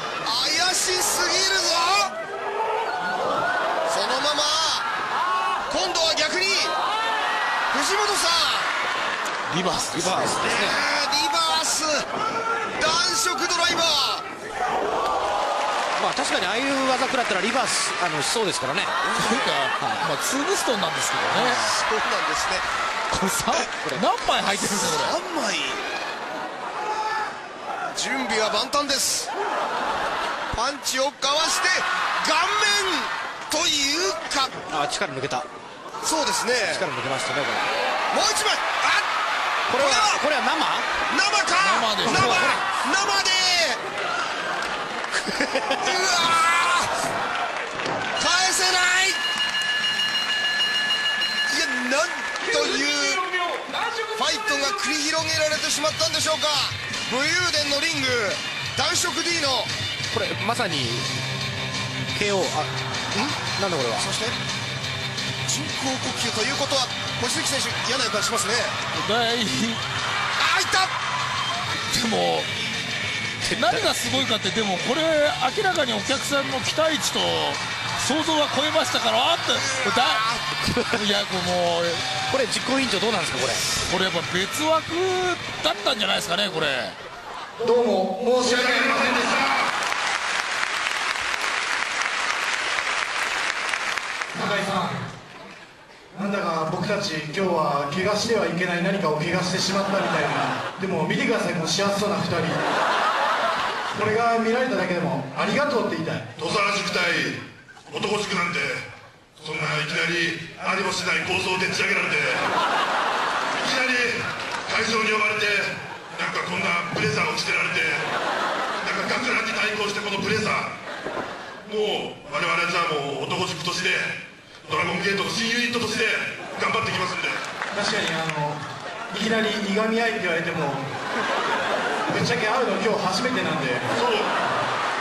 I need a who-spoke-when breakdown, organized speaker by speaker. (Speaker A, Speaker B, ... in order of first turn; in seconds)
Speaker A: 0.2-2.1, 3.9-4.9, 5.7-6.8, 7.7-8.7, 10.4-12.1, 12.7-14.3, 19.0-19.6, 21.3-22.6, 24.6-25.8, 27.9-29.3, 30.5-34.6, 36.0-36.9, 38.1-39.0, 39.7-40.2, 41.1-43.8, 45.8-46.9, 48.2-49.2, 51.5-53.3, 54.1-59.7, 64.0-64.4, 65.5-68.8, 70.4-70.9, 79.7-80.4
Speaker B: 9.5-10.4, 19.1-21.6, 23.1-25.2, 41.6-42.6, 68.9-69.8, 71.9-72.5, 73.5-80.3, 80.9-82.0, 83.8-87.0
Speaker C: 9.9-10.9, 16.0-19.0, 19.8-20.1, 23.7-24.1, 34.7-35.5, 36.7-37.7, 39.7-40.9, 42.0-42.6, 45.1-45.8, 60.1-61.1, 62.1-64.1, 73.4-74.0, 80.6-81.0, 82.3-83.7
Speaker D: 87.6-89.5, 94.3-95.1, 96.1-102.6, 103.9-106.4, 127.7-128.6, 129.1-130.9, 132.1-134.0
Speaker E: 106.4-108.9, 109.4-112.5, 113.5-118.1, 118.8-120.7, 121.7-127.4, 134.0-134.4